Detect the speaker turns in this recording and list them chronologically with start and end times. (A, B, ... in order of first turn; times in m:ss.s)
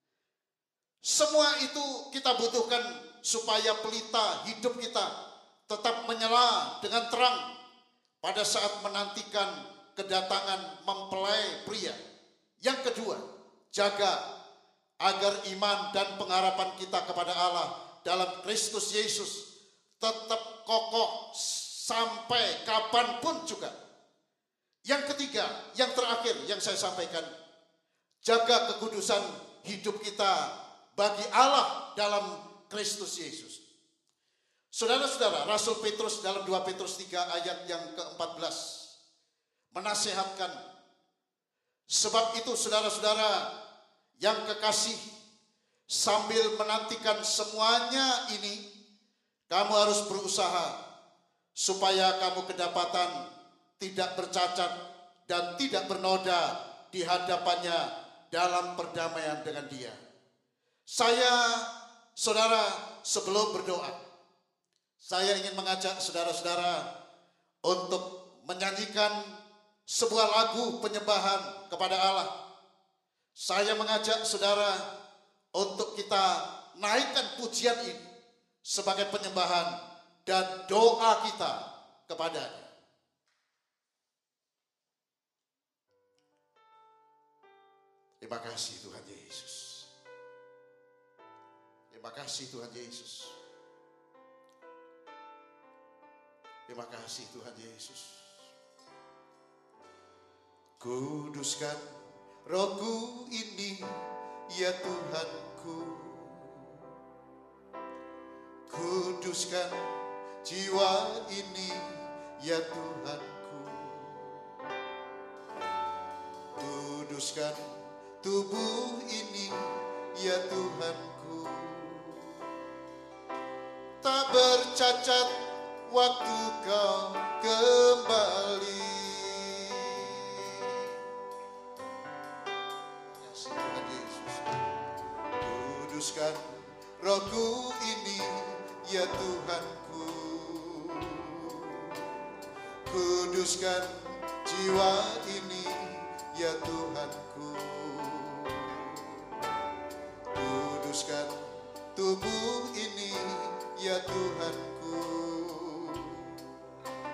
0:01.0-0:05.1 A
0:05.7-0:07.4 A
0:08.2-0:12.0 A
0:12.6-0:14.2 A
0:15.0-0:19.4 A
0:20.0-0:23.7 A
0:24.9-0:27.3 A
0:28.2-0:33.6 A
0:34.7-0:38.9 A
0:39.7-0:40.6 A
0:41.9-0:43.5 A
0:44.2-0:45.0 A
0:45.9-0:48.6 A
0:49.5-0:50.7 A
0:51.6-0:53.1 A
0:53.8-0:54.7 A
0:55.3-1:00.0 A
1:00.9-1:01.6 A
1:02.2-1:04.0 A
1:05.0-1:06.8 A
1:07.6-1:09.2 A
1:09.9-1:12.3 A
1:13.4-1:14.8 A
1:15.6-1:18.0 A
1:18.6-1:19.7 A
1:20.2-1:22.7 A
1:28.2-1:29.9 A
1:31.9-1:33.3 A
1:36.7-1:38.3 A
1:40.8-1:41.8 A
1:42.5-1:43.9 A
1:44.5-1:46.7 A
1:48.7-1:49.8 A
1:50.4-1:54.2 A
1:56.6-1:57.6 A
1:58.2-1:59.7 A
2:00.2-2:02.2 A
2:04.0-2:05.3 A
2:05.9-2:10.8 A
2:13.2-2:14.6 A
2:15.4-2:22.0 A
2:22.9-2:23.9 A
2:24.4-2:29.0 A
2:30.4-2:31.3 A
2:32.0-2:36.3 A